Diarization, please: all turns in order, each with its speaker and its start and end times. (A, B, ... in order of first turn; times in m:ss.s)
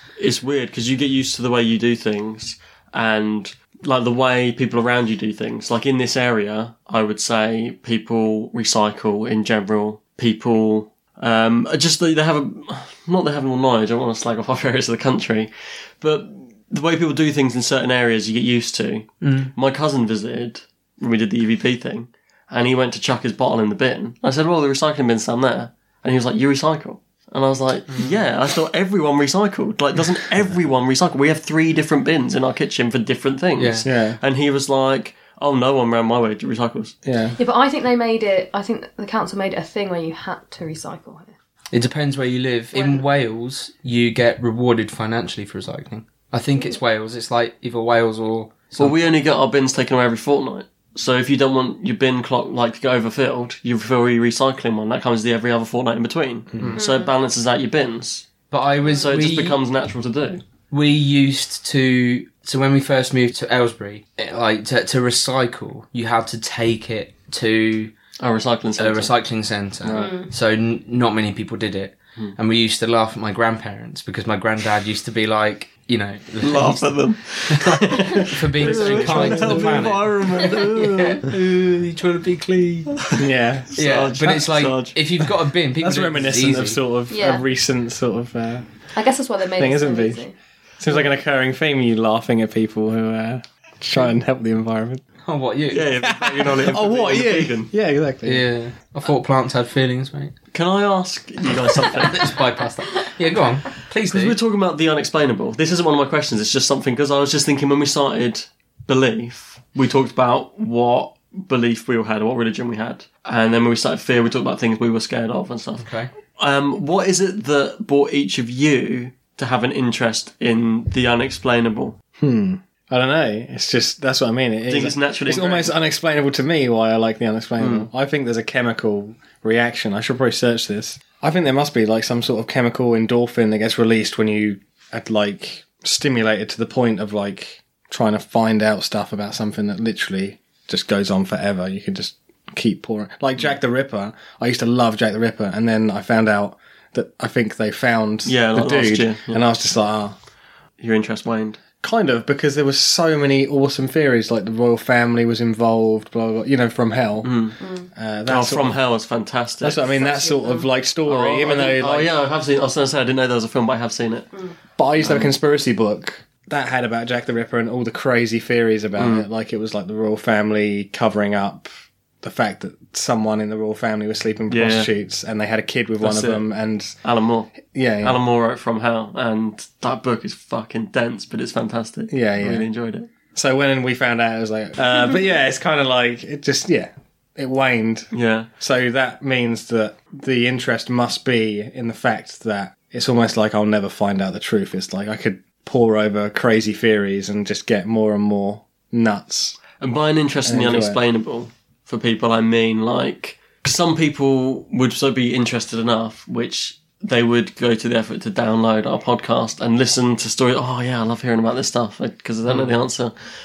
0:00.2-0:36.9 A
0:19.2-0:19.5 B
0:27.9-0:28.2 B
0:33.6-0:33.9 B
0:33.8-0:34.2 C
0:37.0-0:37.4 C
0:37.4-0:41.3 D
0:41.7-0:48.9 B
0:42.7-0:43.0 D
0:48.8-0:58.3 A
0:56.8-0:57.1 D
0:58.5-0:59.6 B
0:58.8-1:00.4 A
1:00.7-1:07.9 B
1:08.2-1:09.1 A
1:08.8-1:23.0 B
1:09.8-1:10.1 A
1:09.9-1:10.3 D
1:16.4-1:21.2 A
1:18.6-1:20.0 C
1:23.2-1:23.7 C
1:23.7-1:26.8 B
1:23.8-1:25.3 A
1:25.8-1:28.6 C
1:27.1-1:27.4 D
1:28.9-1:30.3 D
1:29.5-1:30.2 C
1:30.8-1:35.0 C
1:35.2-1:35.8 B
1:35.7-1:37.7 A
1:36.0-1:38.4 C
1:38.2-1:40.3 B
1:40.5-1:42.3 A
1:42.0-1:44.4 B
1:44.1-1:55.9 A
1:55.8-1:56.1 B
1:56.4-2:02.0 A
2:02.2-2:30.2 C
2:04.7-2:05.7 A
2:07.6-2:07.9 A
2:28.2-2:29.4 A
2:30.8-2:31.6 A
2:31.8-2:38.8 C
2:37.2-2:37.6 A
2:37.6-2:37.9 D
2:38.2-2:39.8 A
2:39.6-2:42.1 C
2:39.8-2:40.7 D
2:41.0-2:44.3 A
2:44.8-2:51.7 C
2:45.0-2:45.3 A
2:49.0-2:49.2 A
2:52.2-2:56.9 C
2:54.5-2:54.9 A
2:56.0-2:56.4 A
2:57.0-3:03.1 A
2:57.7-2:58.2 C
3:02.1-3:02.6 C
3:03.3-3:19.6 C
3:08.1-3:08.5 A
3:19.8-3:33.1 A
3:20.4-3:21.0 C
3:32.5-3:32.7 B